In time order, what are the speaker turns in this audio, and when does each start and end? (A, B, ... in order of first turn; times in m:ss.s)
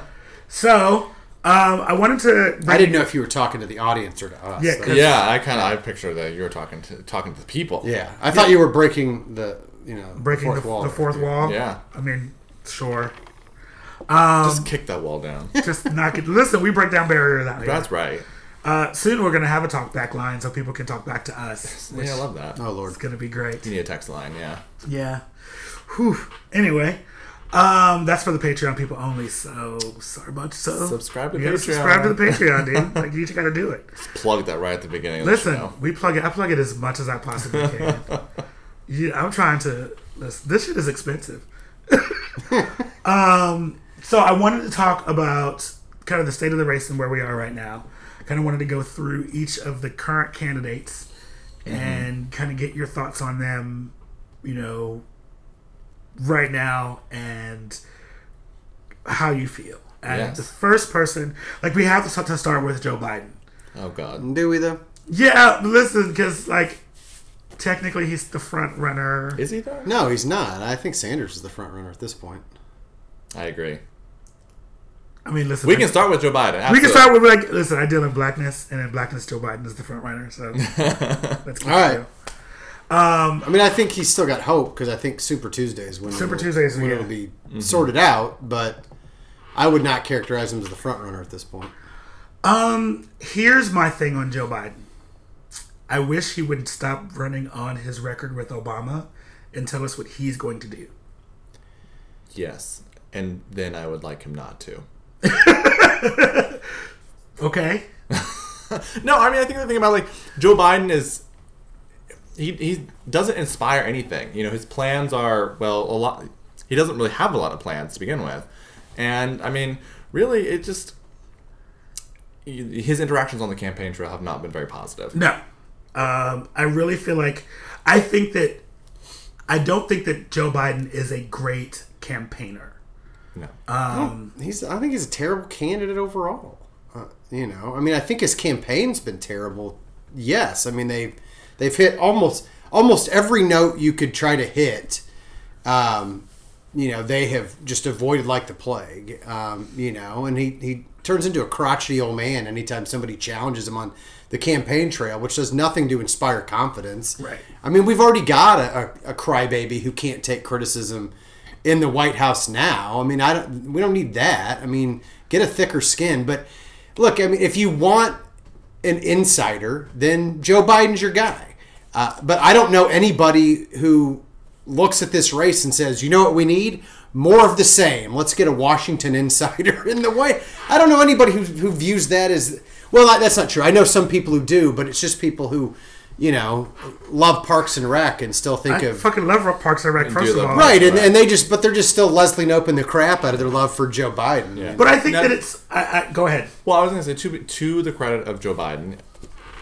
0:00.5-0:03.1 A
0:02.6-0:05.1 B
0:04.6-0:05.2 A
0:04.8-0:07.9 C
0:07.8-0:11.2 B
0:10.2-0:13.1 A
0:11.4-0:11.8 C
0:14.1-0:14.7 A
0:14.4-0:15.5 C
0:15.6-0:17.9 A
0:17.6-0:18.2 C
0:18.6-0:22.2 A
0:21.7-0:22.6 C
0:22.6-0:23.0 B
0:22.9-0:23.7 A
0:23.6-0:24.6 C
0:24.8-0:25.2 A
0:25.9-0:27.0 A
0:27.5-0:34.0 A
0:30.8-0:33.0 C
0:34.0-0:35.7 C
0:35.2-0:38.0 A
0:37.5-0:38.2 C
0:38.9-0:42.3 A
0:43.0-0:51.1 A
0:51.6-0:53.9 A
0:51.6-0:52.1 C
0:54.4-0:55.0 A
0:56.2-0:57.8 A
0:59.0-1:03.4 A
1:00.1-1:00.4 C
1:03.7-1:04.2 C
1:04.2-1:04.8 B
1:05.1-1:06.8 A
1:07.6-1:09.4 A
1:09.4-1:09.9 C
1:09.8-1:12.4 B
1:13.3-1:13.8 C
1:15.2-1:16.0 A
1:15.6-1:17.1 C
1:16.6-1:22.1 A
1:20.6-1:21.4 C
1:21.6-1:22.0 B
1:22.9-1:23.5 A
1:23.4-1:28.8 B
1:26.1-1:27.1 A
1:27.5-1:27.9 C
1:29.5-1:31.7 B
1:32.4-1:34.8 A
1:35.9-1:40.9 A
1:42.3-1:44.8 C
1:45.2-1:46.6 A
1:47.4-1:47.8 A
1:48.1-1:51.2 C
1:52.4-2:00.9 C
2:02.4-2:05.2 C
2:05.1-2:05.4 A
2:05.9-2:08.6 A
2:09.5-2:12.8 A
2:13.7-2:14.3 A
2:13.9-2:25.0 B
2:25.6-2:41.1 B
2:41.6-2:48.2 B
2:48.8-3:09.0 B
3:08.7-3:10.9 A
3:10.0-3:11.1 C
3:10.5-3:14.8 B
3:14.5-3:15.4 C
3:14.8-3:16.5 A
3:16.6-3:19.0 C